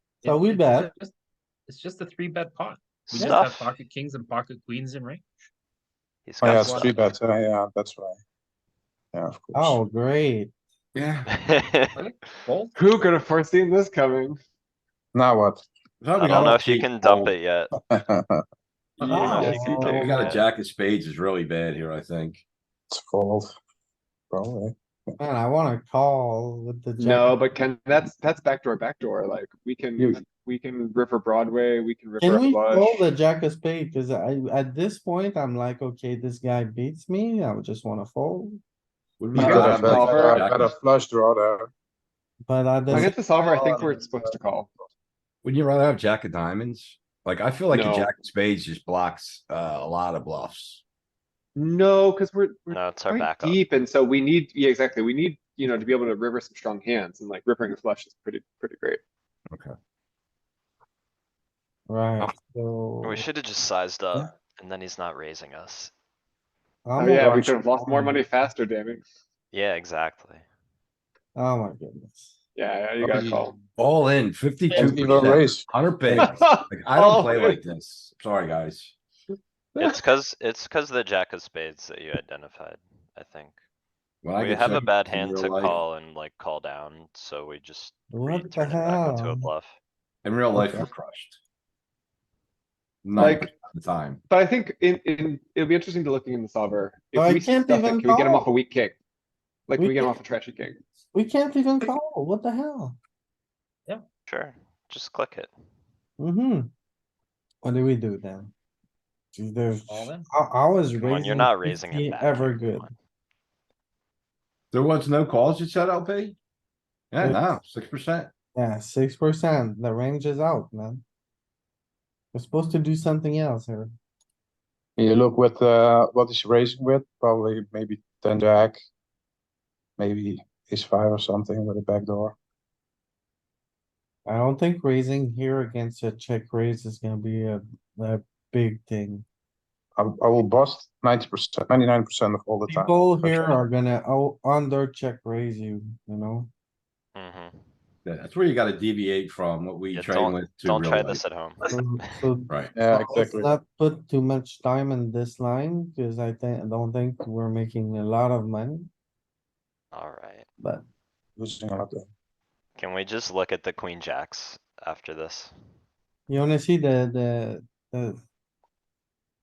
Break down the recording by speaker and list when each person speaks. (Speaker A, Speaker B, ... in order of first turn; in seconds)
Speaker A: 0.2-1.1, 1.7-5.3, 6.5-7.2, 11.9-12.7, 19.0-19.5, 109.9-110.3
Speaker B: 0.2-0.9, 3.2-3.4, 9.5-10.5, 19.0-20.2, 25.2-27.4, 32.2-38.6, 42.5-43.2, 61.9-63.2, 66.9-68.3, 71.4-72.4, 88.1-89.5, 90.5-90.9, 97.2-98.5, 99.8-100.1, 101.1-103.0, 106.2-106.7, 107.6-108.5, 109.3-112.9, 117.2-117.6, 118.5-121.0, 122.3-123.9, 134.2-139.2, 142.7-146.5, 151.7-158.9, 166.3-168.2
Speaker C: 3.1-3.7, 6.2-7.2, 11.3-11.9, 16.1-17.7, 19.0-20.4, 52.7-53.6, 63.0-65.9, 69.5-70.4, 79.8-83.6, 84.4-89.7, 104.3-105.5, 111.0-112.9, 147.1-147.6, 149.9-151.7, 159.9-160.4, 162.8-165.5
Speaker D: 6.4-8.2, 9.1-9.8, 15.1-15.6, 17.8-18.4, 22.9-23.5, 24.3-25.1, 39.3-41.7, 42.9-44.0, 67.2-67.5, 73.0-73.5, 74.7-76.3, 125.0-128.8, 130.0-132.3, 139.9-143.6, 152.7-153.5, 161.4-162.1
Speaker E: 10.9-11.3, 16.0-17.3, 19.6-22.4, 39.2-40.8, 45.4-50.8, 73.8-79.0, 79.8-80.0, 84.2-85.8, 90.2-91.4, 93.0-94.2, 114.7-116.4, 117.1-118.3, 148.0-151.2, 152.5-152.7
Speaker F: 12.8-14.4, 19.3-19.9, 27.0-33.1, 39.4-40.5, 42.9-44.7, 47.7-48.1, 51.5-59.0, 67.0-69.0, 72.6-73.5, 76.2-77.6, 93.2-93.5, 94.3-99.0, 99.7-100.8